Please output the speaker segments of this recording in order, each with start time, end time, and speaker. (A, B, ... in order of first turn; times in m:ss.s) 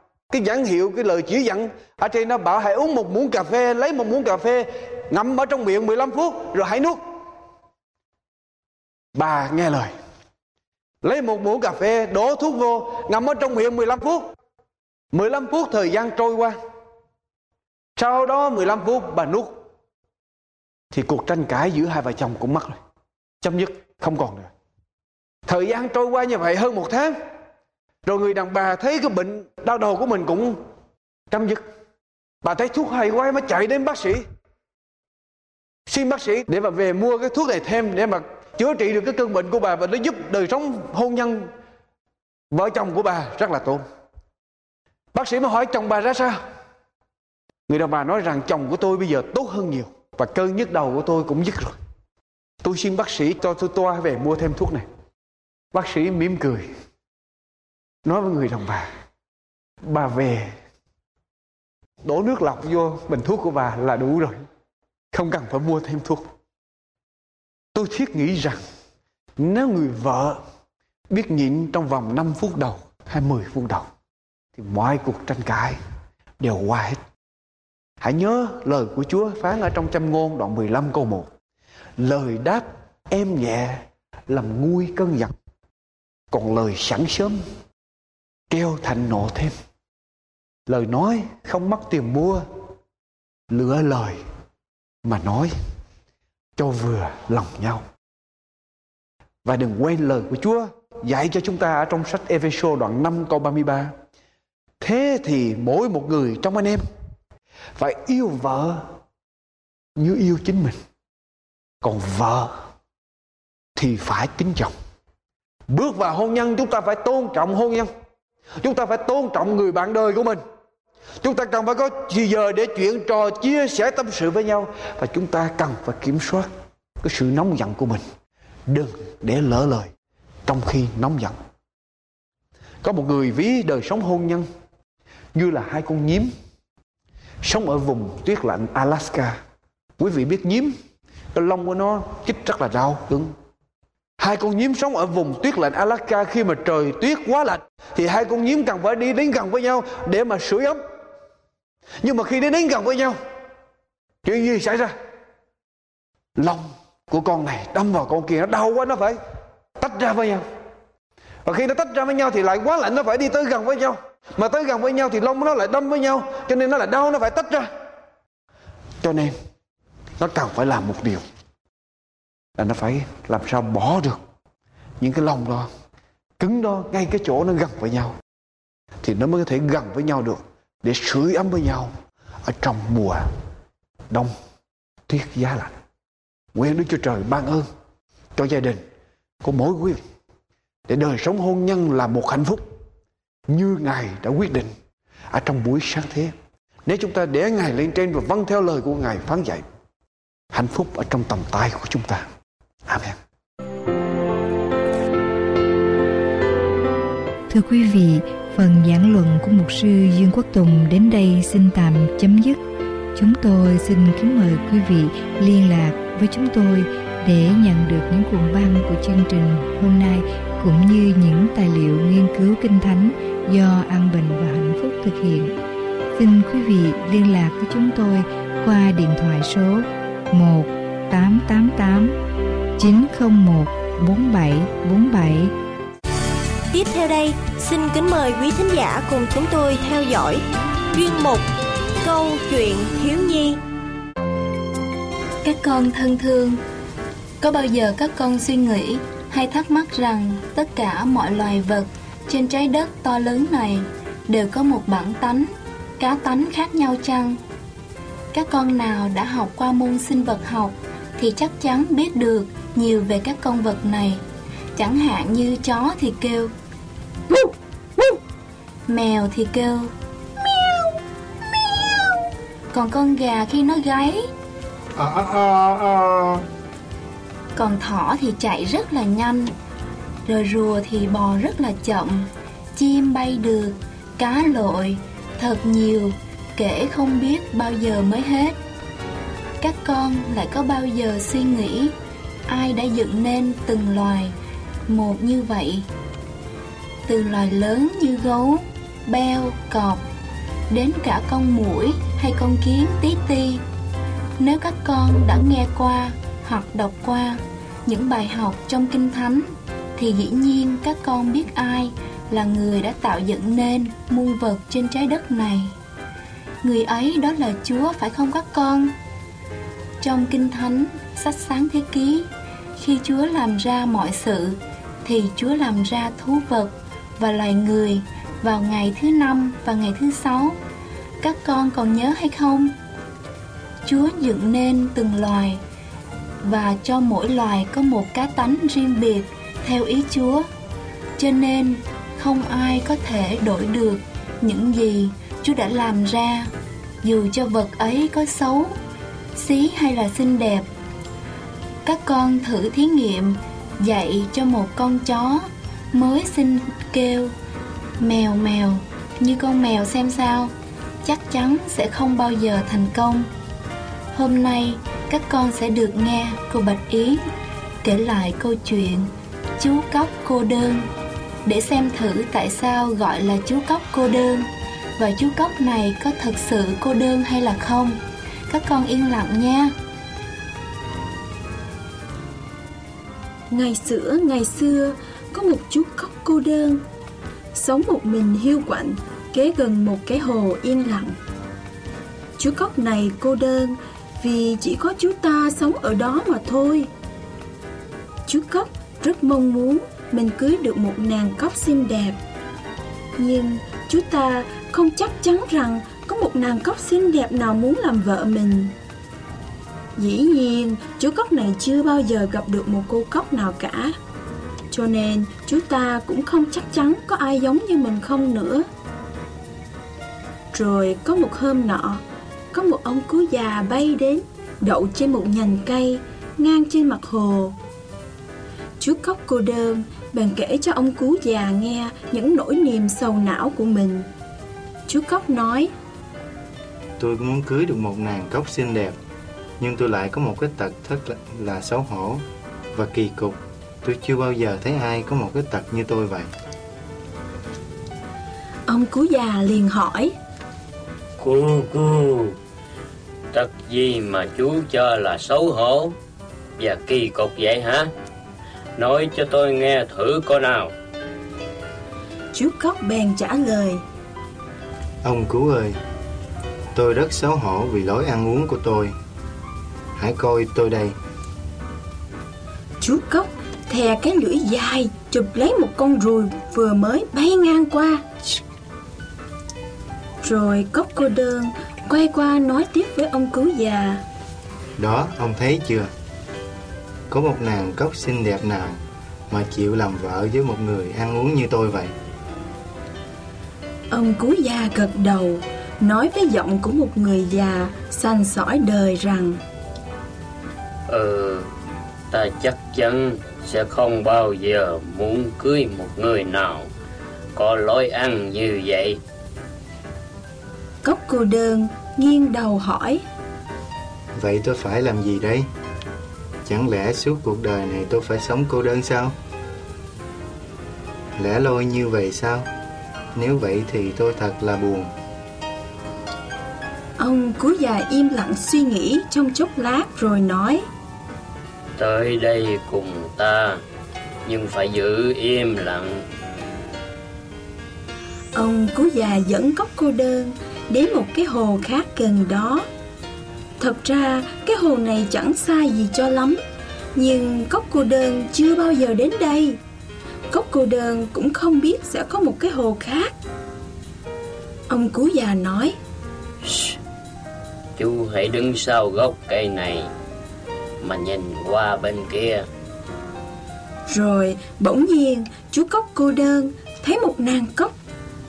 0:00.3-0:07.0 A
0:09.1-0:09.9 A
0:11.0-0:14.2 A
0:15.1-0:16.6 A
0:18.0-0:19.6 A
0:20.9-0:22.8 A
0:23.4-0:24.5 A
0:25.5-0:27.1 A
0:28.0-0:30.6 A
0:31.3-0:31.6 A
0:32.4-0:34.2 A
0:35.9-0:41.5 A
0:42.5-0:43.8 A
0:45.1-0:46.4 A
0:47.7-0:51.8 A
0:52.6-0:54.8 A
0:55.7-0:56.6 A
0:58.0-0:58.9 A
0:59.8-1:00.5 A
1:02.0-1:04.4 A
1:05.1-1:06.3 A
1:07.7-1:08.6 A
1:09.4-1:10.4 A
1:11.1-1:13.9 A
1:14.5-1:15.8 A
1:16.4-1:17.0 A
1:18.0-1:21.3 A
1:22.0-1:25.3 A
1:26.3-1:27.4 A
1:28.5-1:29.6 A
1:30.7-1:32.4 A
1:33.5-1:34.2 A
1:35.0-1:35.5 A
1:36.6-1:37.8 A
1:39.4-1:43.9 A
1:44.8-1:46.8 A
1:47.8-1:48.8 A
1:50.0-1:50.8 A
1:51.8-1:52.5 A
1:53.8-1:54.7 A
1:55.7-1:57.9 A
1:58.6-2:00.4 A
2:01.2-2:06.5 A
2:07.0-2:08.0 A
2:08.7-2:09.9 A
2:10.4-2:11.4 A
2:12.8-2:14.5 A
2:15.3-2:16.3 A
2:17.4-2:19.4 A
2:20.0-2:20.7 A
2:21.3-2:23.3 A
2:24.2-2:30.8 A
2:32.0-2:33.2 A
2:34.2-2:34.9 A
2:36.4-2:39.2 A
2:39.8-2:40.4 A
2:41.4-2:47.7 A
2:49.0-2:49.3 A
2:50.2-2:51.2 A
2:52.6-2:54.2 A
2:55.0-2:55.7 A
2:56.4-2:58.2 A
2:59.0-3:01.9 A
3:02.4-3:03.2 A
3:04.1-3:04.3 A
3:05.1-3:05.7 A
3:06.5-3:07.7 A
3:08.4-3:08.8 A
3:09.4-3:10.0 A
3:10.9-3:12.6 A
3:13.5-3:14.7 A
3:15.3-3:16.3 A
3:16.9-3:19.6 A
3:20.5-3:22.2 A
3:22.9-3:23.2 A
3:27.5-3:32.6 B
3:33.2-3:45.5 B
3:46.2-3:52.1 B
3:52.8-3:55.5 B
3:56.7-4:01.4 C
4:02.0-4:03.6 C
4:05.4-4:06.6 D
4:07.4-4:17.4 D
4:18.3-4:24.2 D
4:24.8-4:26.5 D
4:28.9-4:29.9 D
4:32.7-4:34.3 D
4:35.0-4:36.1 C
4:37.5-4:39.5 D
4:40.2-4:48.6 D
4:49.6-4:51.9 D
4:52.5-4:54.3 D
4:54.9-4:55.8 D
4:57.1-5:00.0 D
5:00.7-5:03.6 D
5:04.4-5:15.7 D
5:16.6-5:18.9 D
5:20.0-5:30.6 D
5:31.2-5:32.7 D
5:33.8-5:35.6 D
5:36.4-5:40.4 D
5:41.2-5:46.5 D
5:47.0-5:48.7 D
5:49.4-5:50.7 D
5:51.8-5:57.3 D
5:58.0-6:00.5 D
6:01.0-6:03.3 D
6:04.1-6:07.2 D
6:07.8-6:10.9 D
6:11.4-6:19.7 D
6:23.5-6:26.8 E
6:27.5-6:31.2 E
6:32.4-6:36.9 E
6:38.3-6:42.2 E
6:43.2-6:48.7 E
6:50.0-6:53.9 E
6:54.7-6:58.7 E
7:00.5-7:02.0 E
7:02.5-7:07.6 E
7:08.8-7:14.1 E
7:14.9-7:15.7 E
7:17.0-7:19.0 F
7:19.6-7:26.3 F
7:28.7-7:30.1 E
7:31.2-7:32.4 G
7:33.3-7:36.0 G
7:36.6-7:37.9 G
7:38.8-7:40.7 G
7:42.3-7:43.8 E
7:45.0-7:45.8 F
7:46.7-7:48.9 F
7:50.0-7:51.0 F
7:52.8-7:58.0 E
8:00.2-8:04.0 E
8:04.8-8:05.9 F
8:07.1-8:11.9 F
8:13.9-8:19.4 E
8:20.9-8:21.5 G
8:22.1-8:26.7 G
8:27.3-8:29.0 G
8:30.8-8:33.0 E
8:34.2-8:35.5 F
8:36.4-8:39.2 F
8:41.1-8:42.5 F
8:43.1-8:44.9 F
8:47.0-8:50.6 E
8:51.8-8:53.6 G
8:54.2-8:56.0 G
8:58.3-9:02.7 E
9:03.6-9:06.4 E
9:06.9-9:09.6 E
9:10.3-9:13.1 E
9:14.7-9:15.8 E
9:16.4-9:16.8 G
9:17.8-9:19.9 G
9:20.8-9:22.4 G
9:23.9-9:27.7 E